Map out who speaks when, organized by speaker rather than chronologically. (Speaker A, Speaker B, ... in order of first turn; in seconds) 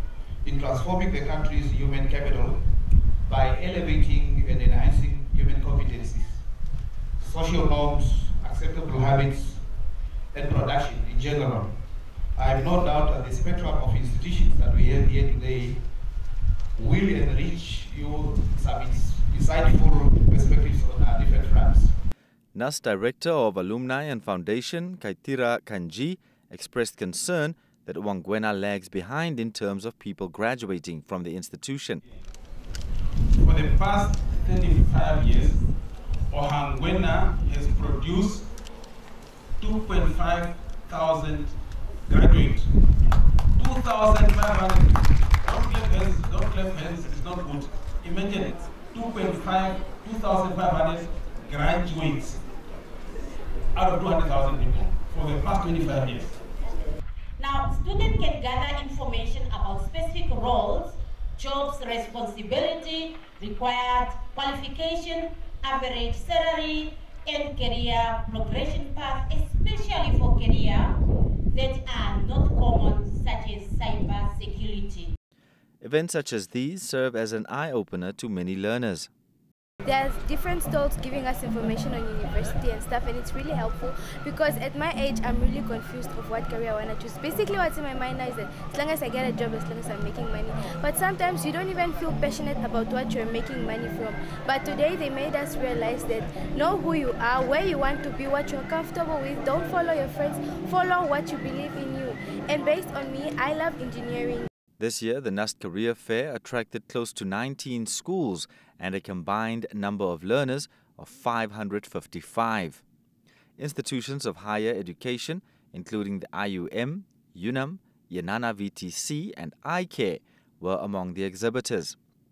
Speaker A: 0.4-2.6, 3.3-6.4, 7.2-9.6, 10.3-11.7, 12.3-15.8, 16.8-21.9
Speaker B: 22.5-32.0, 75.8-79.1, 104.8-112.8, 113.6-122.0
Speaker C: 33.4-35.6, 36.3-38.5, 39.6-41.5, 42.1-42.7, 43.6-52.4, 53.7-56.4
Speaker D: 57.4-70.9, 71.5-75.1
Speaker E: 79.8-104.5